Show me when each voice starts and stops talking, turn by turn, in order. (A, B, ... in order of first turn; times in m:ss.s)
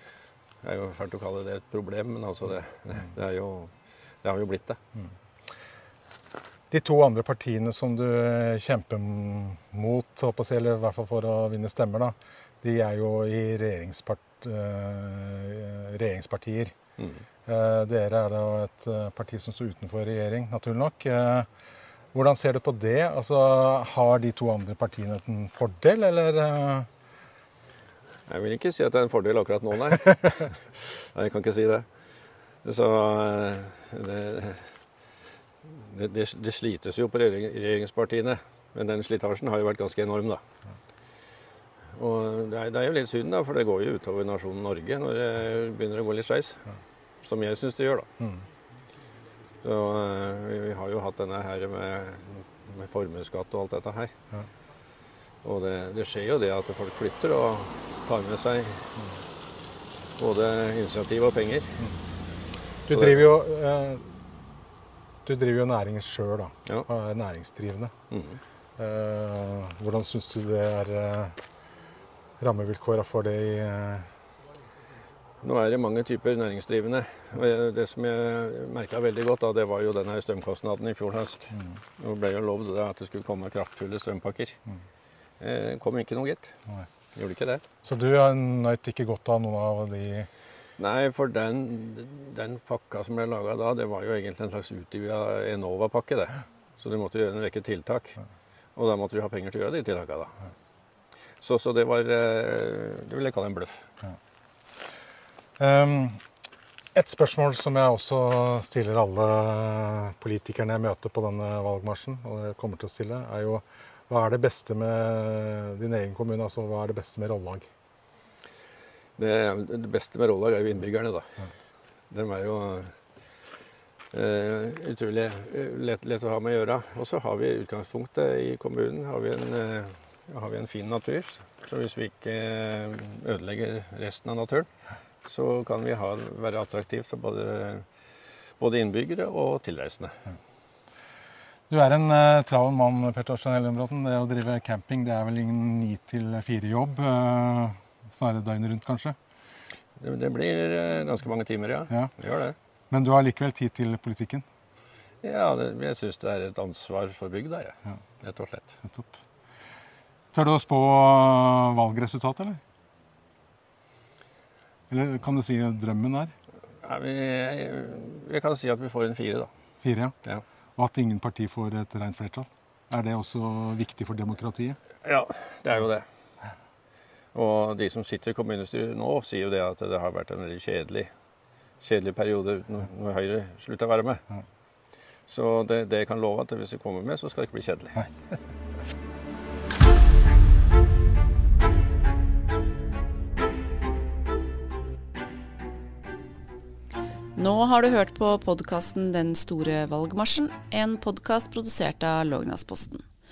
0:00.6-0:04.8 A
0:06.7-0:16.7 B
0:17.0-0:17.2 A
0:17.5-0:21.5 B
0:22.1-0:26.9 B
0:28.3-0:30.6 A
0:31.1-0:31.9 A
0:32.6-0:34.7 A
0:35.7-0:40.4 A
0:41.9-0:46.7 A
0:47.2-0:48.1 A
0:49.6-0:54.1 A
0:55.4-0:59.0 A
1:00.2-1:01.8 A
1:02.8-1:04.5 B
1:02.9-1:03.3 A
1:05.2-1:07.9 B
1:08.1-1:08.4 A
1:08.8-1:11.4 B
1:12.4-1:14.1 B
1:15.4-1:24.6 A
1:25.4-1:26.5 A
1:27.1-1:27.6 A
1:27.8-1:30.3 B
1:30.8-1:38.2 A
1:38.8-1:40.4 A
1:41.4-1:43.9 A
1:45.6-1:46.2 B
1:46.9-1:57.7 B
1:59.2-2:01.4 A
2:02.1-2:03.0 A
2:04.1-2:14.7 A
2:15.2-2:17.8 A
2:18.6-2:20.2 A
2:21.7-2:29.2 B
2:30.0-2:32.6 A
2:32.9-2:34.4 B
2:35.2-2:38.8 A
2:38.8-2:39.2 B
2:40.3-2:42.6 B
2:44.9-2:46.3 B
2:46.8-2:49.5 A
2:49.8-2:50.1 B
2:50.8-2:54.8 B
2:55.0-2:56.0 A
2:57.3-3:01.1 A
3:01.8-3:04.2 A
3:05.3-3:08.1 A
3:17.4-3:23.0 C